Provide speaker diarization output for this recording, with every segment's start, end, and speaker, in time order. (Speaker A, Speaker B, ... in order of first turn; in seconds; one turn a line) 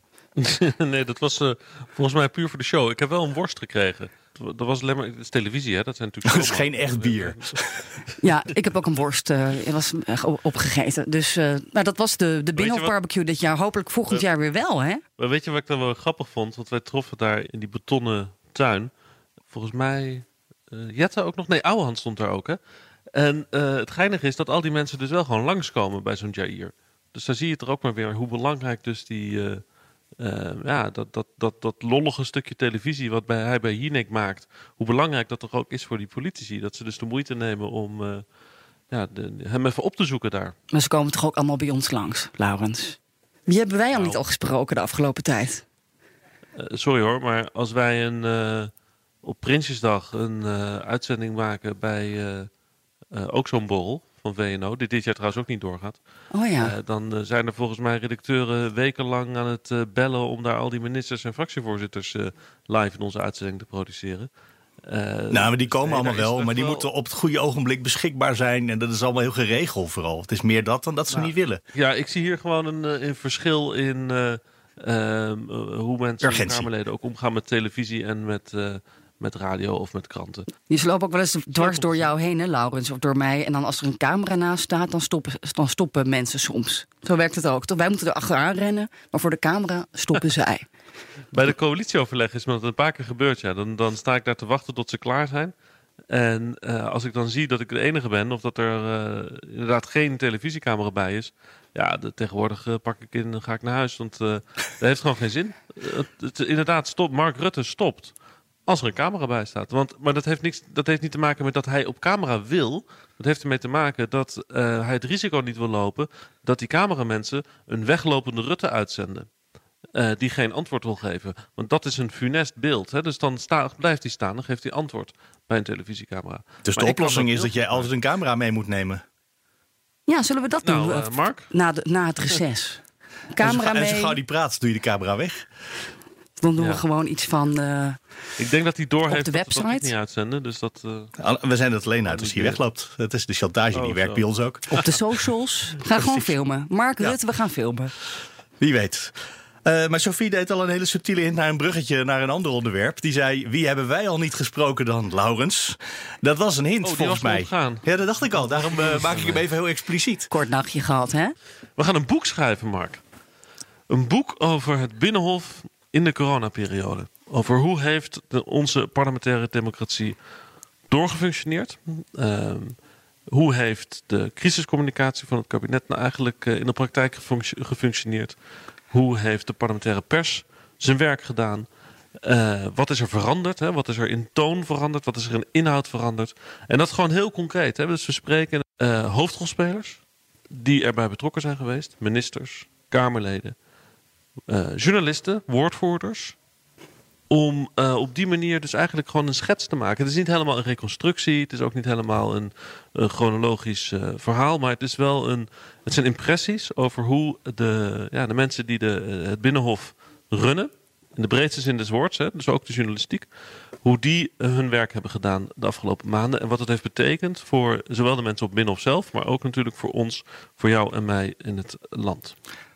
Speaker A: 0.4-7.5
Speaker B: 6.2-7.9
Speaker C: 8.2-15.0
Speaker A: 12.6-12.9
Speaker A: 15.2-18.9
Speaker A: 19.5-22.6
Speaker A: 23.1-29.6
Speaker A: 30.2-38.2
Speaker A: 38.9-40.5
Speaker C: 40.7-45.6
Speaker A: 43.9-44.2
Speaker A: 46.5-48.7
Speaker A: 49.2-52.5
Speaker A: 53.1-56.0
Speaker C: 56.3-56.7
Speaker A: 56.6-64.3
Speaker A: 64.8-66.9
Speaker B: 65.3-71.6
Speaker A: 71.1-80.5
Speaker B: 76.2-76.7
Speaker C: 80.7-90.7
Speaker A: 81.6-82.1
Speaker A: 91.3-95.5
Speaker A: 96.1-108.1
Speaker A: 108.7-119.3
Speaker A: 119.9-127.9
Speaker B: 126.6-129.0
Speaker C: 130.1-132.8
Speaker A: 130.6-131.5
Speaker C: 133.3-134.2
Speaker B: 133.4-135.5
Speaker C: 136.4-138.0
Speaker A: 136.6-136.8
Speaker A: 138.4-141.1
Speaker C: 139.1-139.9
Speaker B: 141.2-144.9
Speaker A: 142.1-142.6
Speaker A: 143.7-144.2
Speaker C: 144.7-147.9
Speaker B: 146.0-146.3
Speaker B: 148.6-160.3
Speaker A: 156.8-159.4
Speaker C: 160.3-161.3
Speaker A: 161.8-163.0
Speaker A: 163.9-170.2
Speaker A: 170.9-172.8
Speaker A: 173.3-178.3
Speaker A: 178.9-181.7
Speaker A: 182.2-190.0
Speaker A: 190.5-193.5
Speaker A: 194.5-196.3
Speaker A: 197.3-213.3
Speaker A: 213.8-222.3